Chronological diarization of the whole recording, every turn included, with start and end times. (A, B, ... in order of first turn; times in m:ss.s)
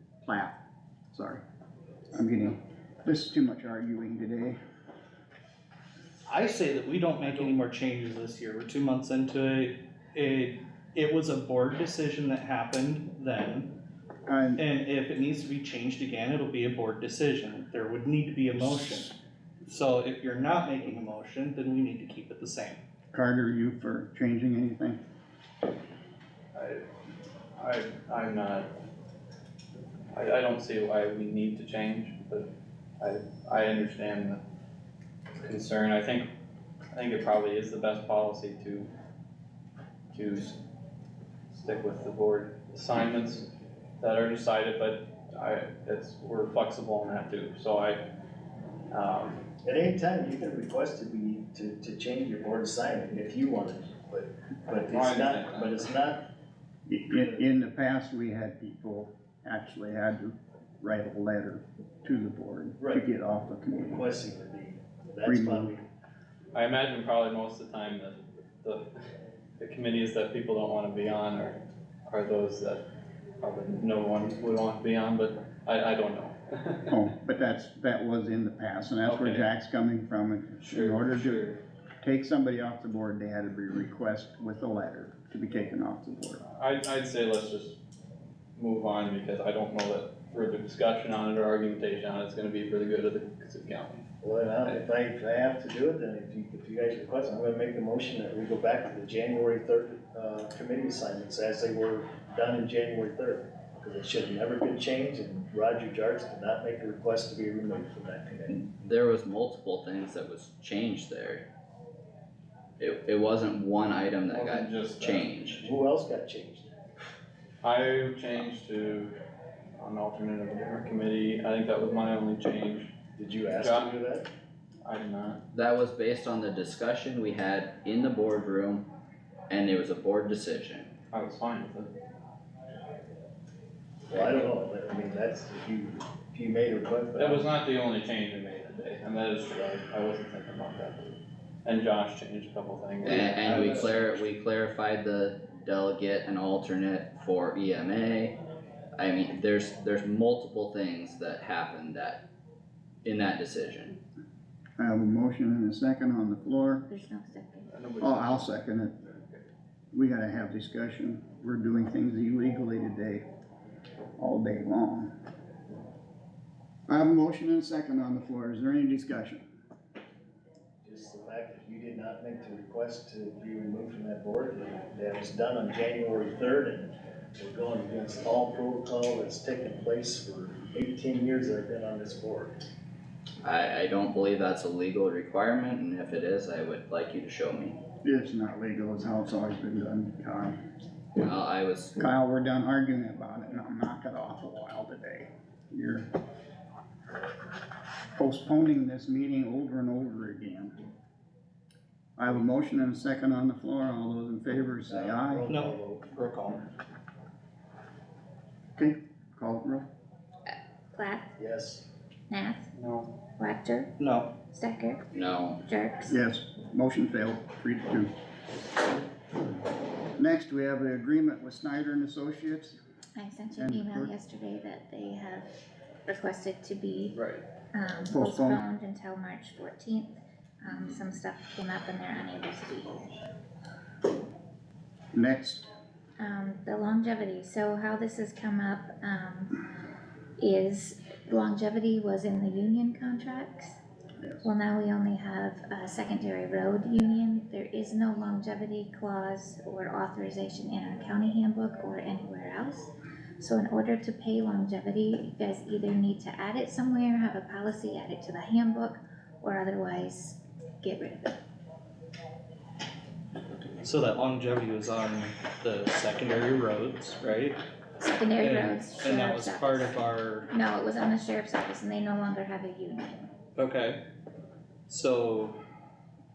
0:00.2-0:00.6 A
0:01.1-0:01.4 A
0:02.1-0:04.6 A
0:06.3-0:13.7 B
0:14.3-0:14.6 A
0:14.6-0:22.8 B
0:23.1-0:25.0 A
0:26.5-0:26.8 C
0:27.6-0:28.7 C
0:30.1-0:32.5 C
0:33.0-0:34.4 C
0:35.4-0:36.3 C
0:36.9-0:38.9 C
0:40.1-0:40.6 C
0:41.5-0:43.4 C
0:44.0-0:48.0 C
0:48.9-0:49.4 C
0:49.6-0:56.2 D
0:54.9-0:55.8 C
0:56.9-1:04.0 A
0:57.2-0:57.4 D
1:02.8-1:03.0 D
1:03.9-1:05.8 D
1:05.2-1:05.7 A
1:06.5-1:08.8 C
1:09.6-1:12.8 C
1:13.4-1:16.9 C
1:16.9-1:21.5 A
1:19.0-1:19.5 C
1:20.6-1:21.6 C
1:22.0-1:26.4 A
1:26.4-1:27.8 C
1:28.6-1:34.0 C
1:34.2-1:48.7 D
1:48.5-1:51.5 E
1:52.8-1:55.6 E
1:54.3-1:55.4 C
1:55.6-1:56.7 D
1:57.6-1:59.1 C
1:59.8-2:02.9 C
2:03.2-2:04.3 D
2:03.6-2:03.9 C
2:04.8-2:05.4 C
2:05.5-2:08.9 E
2:09.5-2:10.9 E
2:11.1-2:11.9 C
2:14.1-2:17.5 D
2:17.2-2:24.1 C
2:23.0-2:28.4 E
2:23.1-2:23.9 D
2:29.0-2:32.2 E
2:33.0-2:34.0 E
2:34.8-2:36.8 A
2:36.9-2:37.7 F
2:37.7-2:38.5 C
2:38.0-2:39.0 A
2:39.1-2:39.4 C
2:39.9-2:43.2 A
2:44.2-2:45.1 A
2:46.9-2:49.4 A
2:50.8-3:02.6 D
3:03.4-3:07.8 E
3:08.0-3:10.6 A
3:11.1-3:12.0 E
3:12.0-3:16.0 A
3:18.1-3:20.8 A
3:22.2-3:25.5 A
3:24.9-3:26.1 D
3:25.5-3:26.7 B
3:28.8-3:29.8 A
3:30.9-3:31.3 F
3:31.4-3:31.8 D
3:32.3-3:32.7 F
3:32.8-3:33.1 C
3:33.4-3:33.9 F
3:34.0-3:34.3 B
3:34.5-3:35.0 F
3:35.1-3:35.6 E
3:35.6-3:36.2 F
3:36.1-3:38.1 A
3:40.2-3:42.8 A
3:43.2-3:45.5 F
3:43.5-3:44.1 A
3:46.0-3:47.2 F
3:47.1-3:47.4 C
3:47.7-3:53.2 F
3:48.1-3:48.6 A
3:55.1-3:55.6 A
3:56.2-3:59.6 F
4:00.4-4:03.8 F
4:04.2-4:04.5 A
4:04.4-4:21.4 F
4:23.8-4:27.6 B
4:28.0-4:33.3 F
4:28.4-4:30.5 B
4:33.6-4:34.0 B
4:34.9-4:35.6 B